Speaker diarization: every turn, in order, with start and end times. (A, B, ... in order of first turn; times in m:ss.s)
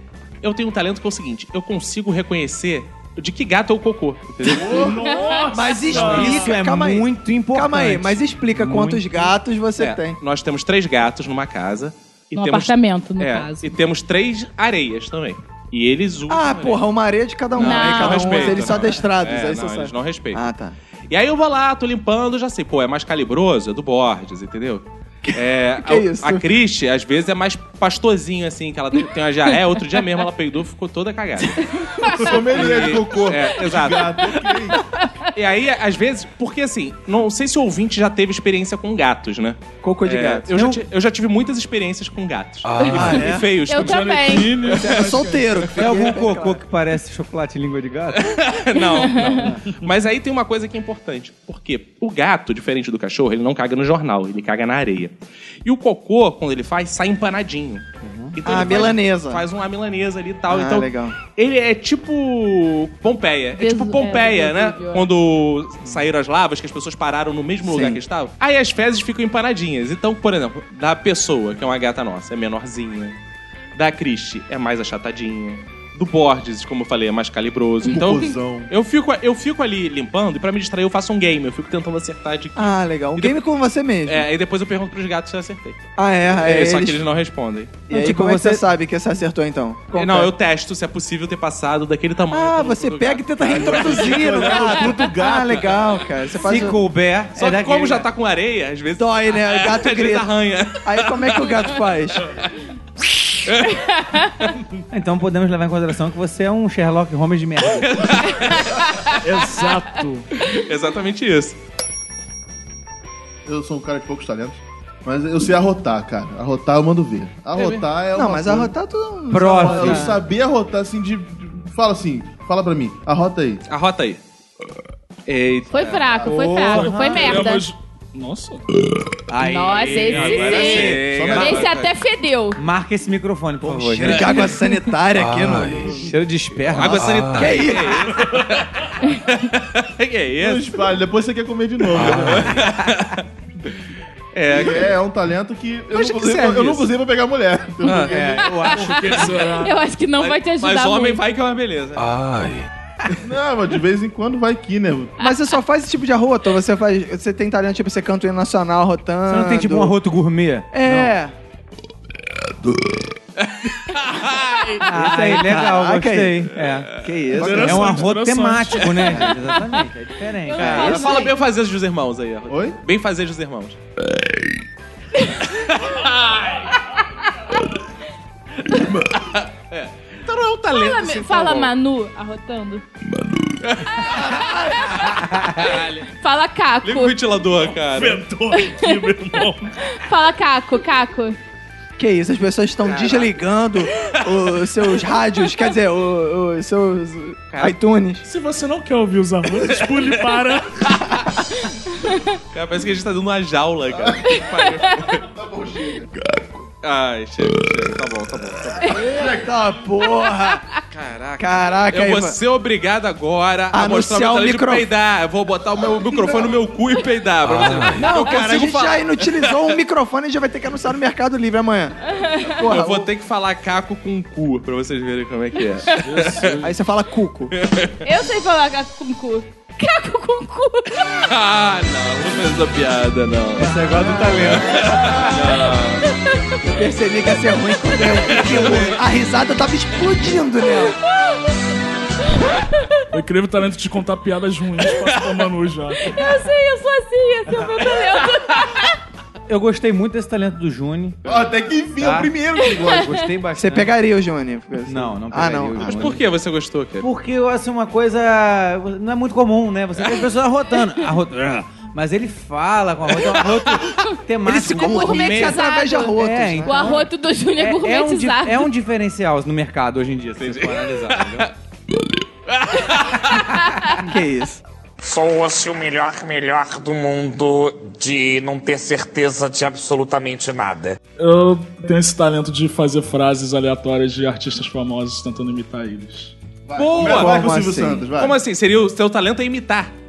0:00.4-0:05.0 A
0:04.5-0:06.6 B
0:05.0-0:05.5 C
0:05.5-0:10.2 D
0:05.9-0:09.3 E
0:05.9-0:06.3 A
0:09.8-0:16.8 A
0:12.3-0:13.7 C
0:16.3-0:20.8 D
0:17.5-0:20.4 A
0:17.6-0:18.7 C
0:21.1-0:31.7 A
0:25.2-0:26.5 D
0:31.8-0:32.4 C
0:32.0-0:34.8 F
0:32.2-0:34.2 A
0:35.3-0:45.1 A
0:39.8-0:40.5 D
0:40.5-0:40.8 E
0:42.8-0:43.5 D
0:43.7-0:44.6 C
0:43.7-0:45.5 B
0:44.8-0:46.6 D
0:45.7-0:48.4 E
0:48.1-0:55.1 A
0:48.8-0:49.5 C
0:55.6-1:13.2 A
0:58.0-0:58.4 E
0:58.4-0:59.4 D
1:00.5-1:01.2 D
1:03.6-1:05.1 C
1:07.6-1:08.0 D
1:13.8-1:23.4 A
1:17.8-1:18.7 F
1:22.6-1:24.3 D
1:24.0-1:25.8 A
1:26.0-1:27.0 D
1:26.4-1:27.8 A
1:27.9-1:30.3 D
1:27.9-1:28.6 E
1:29.9-1:34.9 A
1:32.3-1:36.8 D
1:33.4-1:35.6 F
1:36.4-1:38.1 E
1:37.4-1:41.6 A
1:39.0-1:40.3 D
1:40.8-1:42.3 D
1:43.5-1:43.8 A
1:43.7-1:44.5 C
1:44.9-1:48.2 E
1:47.8-1:48.6 A
1:48.2-1:49.2 C
1:49.2-1:50.3 B
1:50.4-1:51.6 A
1:53.5-1:58.7 F
1:57.6-1:57.9 A
1:58.1-2:00.2 D
1:59.3-2:00.2 E
1:59.5-2:03.6 F
2:03.7-2:04.2 A
2:05.3-2:06.2 A
2:05.7-2:07.6 C
2:05.8-2:06.3 F
2:06.3-2:07.3 E
2:06.7-2:08.6 B
2:09.3-2:11.3 E
2:09.4-2:12.6 C
2:10.0-2:11.9 A
2:10.3-2:11.7 F
2:12.6-2:14.5 E
2:13.6-2:16.1 D
2:14.1-2:14.4 A
2:15.7-2:17.6 E
2:16.7-2:20.9 A
2:16.8-2:18.1 D
2:20.4-2:22.6 F
2:21.9-2:23.7 A
2:24.3-2:25.0 A
2:24.5-2:28.7 F
2:25.9-2:26.9 A
2:27.8-2:28.2 A
2:27.9-2:29.3 E
2:28.4-2:31.2 C
2:28.8-2:29.8 B
2:30.2-2:32.6 A
2:33.2-2:35.2 F
2:35.2-2:40.0 D
2:39.3-2:41.2 E
2:40.7-2:41.4 D
2:43.4-2:44.9 A
2:44.8-2:51.1 E
2:44.9-2:48.0 D
2:47.4-2:49.1 B
2:47.4-2:47.9 F
2:48.8-2:49.1 A
2:49.5-2:49.8 C
2:50.4-2:51.4 C
2:50.6-2:51.2 D
2:50.6-2:53.8 A
2:52.5-2:52.8 F
2:55.2-2:55.5 C
2:55.6-2:56.7 A
2:59.1-3:01.7 A
3:00.7-3:02.8 C
3:03.6-3:04.2 A
3:04.0-3:04.9 D
3:04.1-3:05.1 C
3:05.6-3:06.1 A
3:06.2-3:07.2 C
3:06.8-3:08.2 A
3:07.8-3:09.8 B
3:08.6-3:09.0 C
3:09.9-3:11.4 C
3:12.0-3:18.2 D
3:12.8-3:13.3 A
3:17.5-3:17.8 A
3:18.2-3:20.9 B
3:19.7-3:20.1 A
3:21.9-3:22.3 C
3:22.5-3:25.2 A
3:23.9-3:26.1 F
3:24.3-3:24.7 C
3:26.8-3:29.0 A
3:28.9-3:30.6 D
3:29.1-3:29.5 F
3:30.9-3:39.8 A
3:31.4-3:32.4 D
3:33.7-3:34.9 D
3:36.1-3:36.5 F
3:37.9-3:43.1 D
3:42.2-3:42.6 C
3:42.6-3:46.6 A
3:46.0-3:46.7 B
3:46.6-3:47.5 D
3:47.5-3:48.0 A
3:48.0-3:51.3 C
3:51.2-3:56.1 A
3:53.6-3:55.4 E
3:56.1-3:56.6 C
3:56.6-4:01.0 D
3:58.4-3:59.0 A
4:01.1-4:01.4 C
4:03.1-4:06.1 B
4:06.0-4:08.9 C
4:09.5-4:11.2 E
4:11.2-4:13.2 F
4:12.0-4:13.9 E
4:13.6-4:16.1 D
4:14.9-4:16.2 E
4:15.8-4:17.1 A
4:17.0-4:25.5 E
4:24.4-4:27.0 D
4:24.7-4:28.7 C
4:26.2-4:31.5 E
4:30.4-4:31.5 A
4:32.5-4:33.5 A
4:33.5-4:34.0 C
4:34.0-4:34.6 D
4:35.0-4:41.0 G
4:41.2-4:46.4 B
4:46.7-4:48.4 F
4:46.8-4:47.4 A
4:47.0-4:48.1 D
4:48.2-4:49.9 A